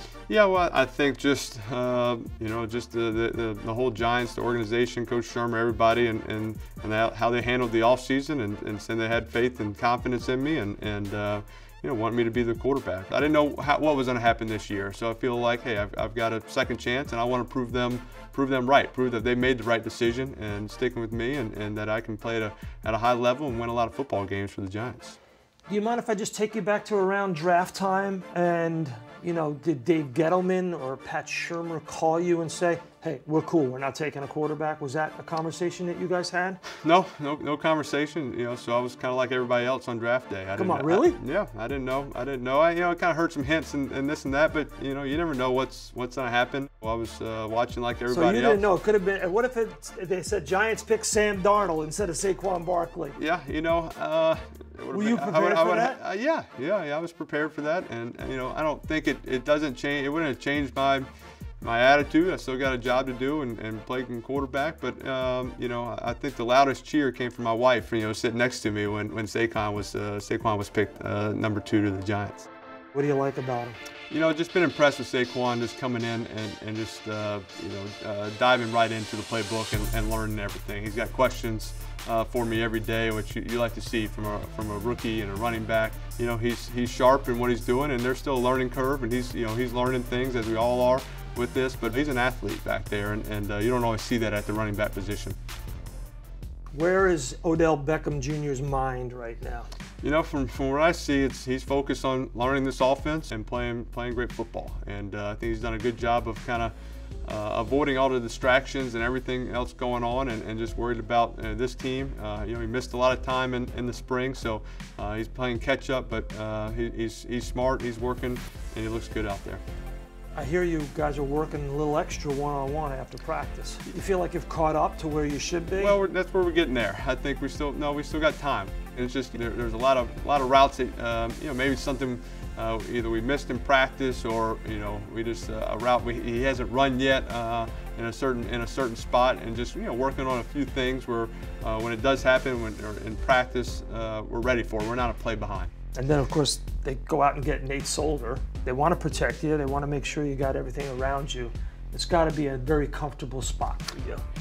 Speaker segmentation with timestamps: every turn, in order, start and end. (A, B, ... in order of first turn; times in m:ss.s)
0:00.3-0:25.2 A
0:25.7-0:36.6 B
0:36.8-0:48.6 A
0:40.6-0:41.2 B
0:48.1-0:53.2 B
0:53.2-1:01.1 A
0:54.9-0:56.0 B
1:01.6-1:12.5 A
1:12.9-1:13.8 B
1:14.1-1:35.4 A
1:36.7-1:39.7 B
1:40.0-1:46.7 A
1:47.2-1:59.6 A
2:00.4-2:06.0 B
2:05.8-2:25.7 A
2:25.9-2:34.2 B